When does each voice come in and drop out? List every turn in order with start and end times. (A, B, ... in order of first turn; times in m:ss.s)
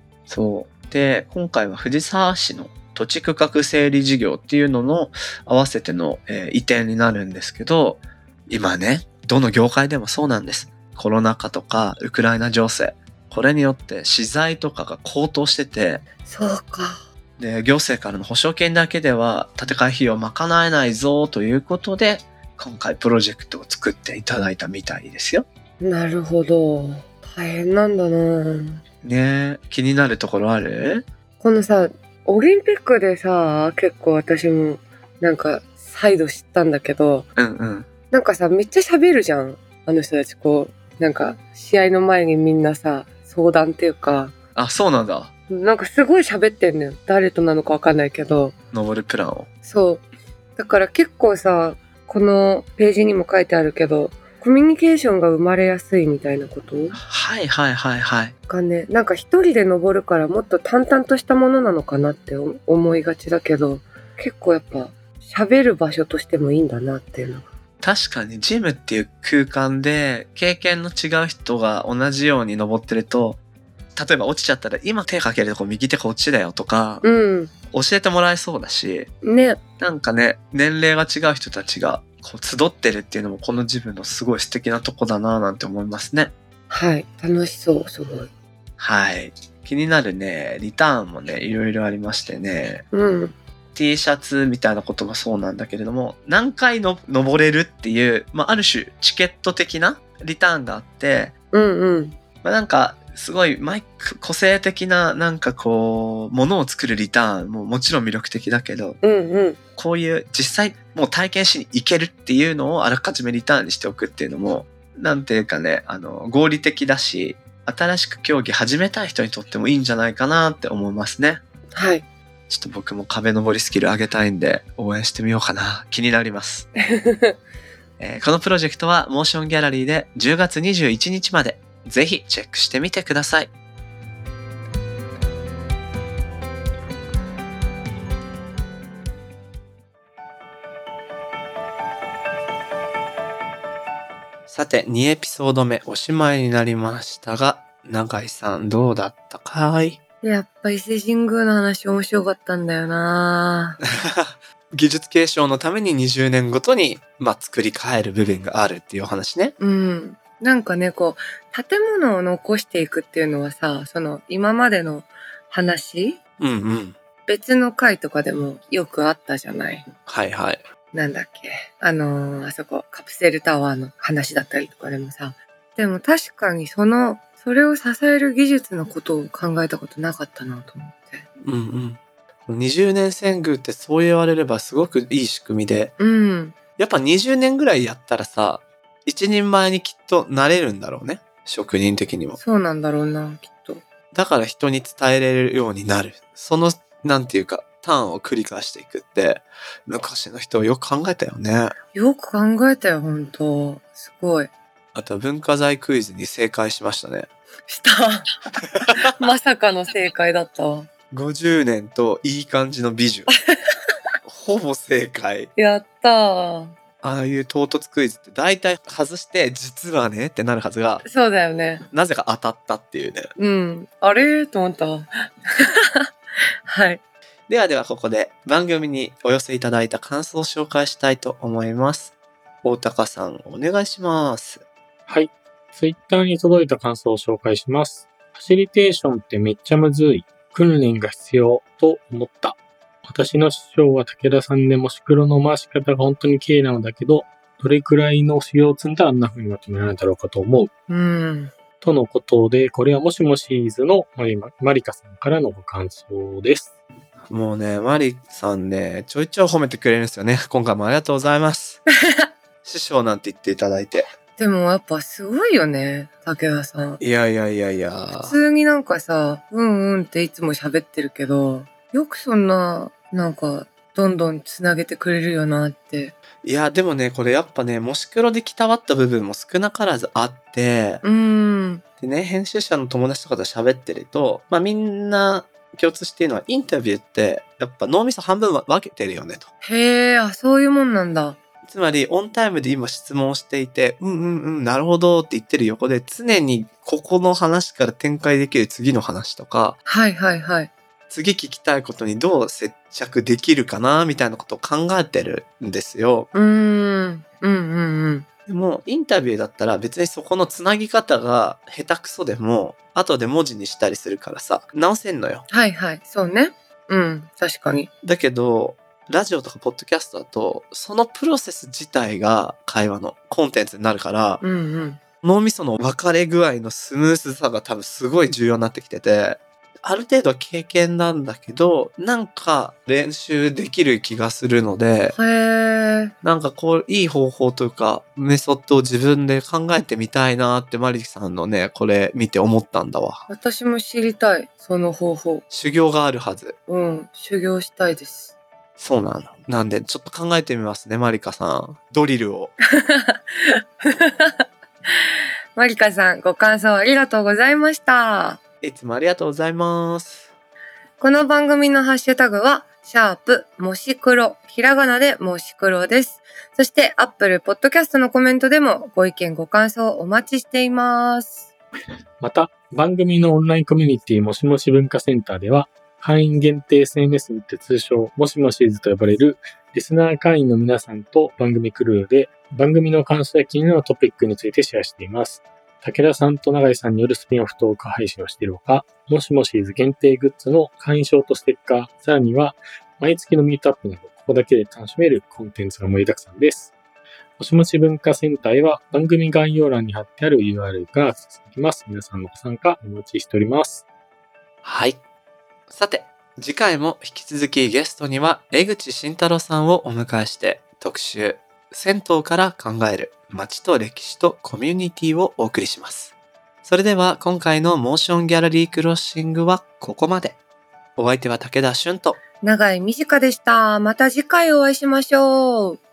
0:00.3-0:16.0 A
0:16.2-0:17.0 B
0:17.4-0:25.4 A
0:25.8-0:28.8 B
0:29.0-0:31.0 A
0:31.4-0:37.2 B
0:37.4-0:37.9 A
0:38.1-0:44.3 B
0:44.6-0:45.3 A
0:45.5-0:48.6 B
0:48.7-0:49.5 A
0:49.6-0:50.0 B
0:50.6-0:57.0 B
0:57.0-0:58.4 A
0:58.5-1:07.5 B
1:07.8-1:13.4 A
1:14.0-1:17.0 A
1:17.0-1:17.5 B
1:17.7-1:19.1 A
1:19.2-1:19.6 B
1:19.8-1:26.3 A
1:26.7-1:28.3 B
1:28.8-1:32.8 A
1:32.9-1:33.4 B
1:33.8-1:41.3 A
1:41.5-1:42.2 B
1:42.4-1:49.0 A
1:49.0-1:49.6 B
1:49.8-2:01.4 A
2:01.7-2:02.1 B
2:02.5-2:06.7 A
2:06.9-2:07.3 B
2:08.0-2:13.5 A
2:24.5-2:30.0 A
2:30.2-2:33.8 B
2:33.8-2:39.5 A
2:39.6-2:46.2 B
2:46.4-2:46.9 A
2:47.3-2:49.9 B
2:50.1-2:50.6 A
2:50.9-3:01.2 B
3:01.4-3:05.9 A
3:06.0-3:06.5 B
3:06.8-3:12.4 A
3:12.4-3:13.8 B
3:14.1-3:21.8 A
3:21.9-3:24.5 B
3:24.9-3:27.3 A
3:27.7-3:28.4 B
3:28.6-3:29.1 A
3:28.9-3:30.9 B
3:31.1-3:33.3 A
3:33.5-3:33.9 B
3:34.3-3:35.5 A
3:35.6-3:36.7 B
3:37.0-3:41.0 A
3:41.0-3:41.8 B
3:41.9-3:43.3 A
3:43.4-3:46.1 B
3:46.6-3:47.0 B
3:47.5-3:54.6 A
3:55.1-4:10.7 C
4:10.9-4:11.5 B
4:11.8-4:16.8 C
4:17.3-4:21.8 A
4:22.6-4:24.1 A
4:24.4-4:27.0 B
4:27.0-4:28.4 A
4:28.2-4:36.2 B
4:36.4-4:41.0 A
4:41.0-4:41.8 B
4:42.0-4:49.5 A
4:49.6-4:51.4 B
4:51.6-4:59.8 A
4:59.9-5:00.7 B
5:01.1-5:06.3 A
5:06.3-5:08.2 B
5:08.5-5:15.4 A
5:15.5-5:17.9 B
5:18.0-5:24.4 A
5:24.4-5:25.0 B
5:25.2-5:35.2 A
5:35.2-5:36.1 B
5:36.2-5:43.3 A
5:43.3-5:45.4 B
5:45.5-5:46.6 A
5:46.7-5:48.3 B
5:48.8-5:52.5 A
5:52.7-5:54.4 B
5:55.0-5:58.4 B
5:58.6-6:00.3 A
6:01.0-6:11.5 B
6:12.2-6:36.7 C
6:37.4-6:43.8 C
6:44.6-6:45.0 A
6:45.7-6:56.1 A
6:56.6-7:00.4 A
7:01.0-7:02.2 A
7:02.4-7:05.8 B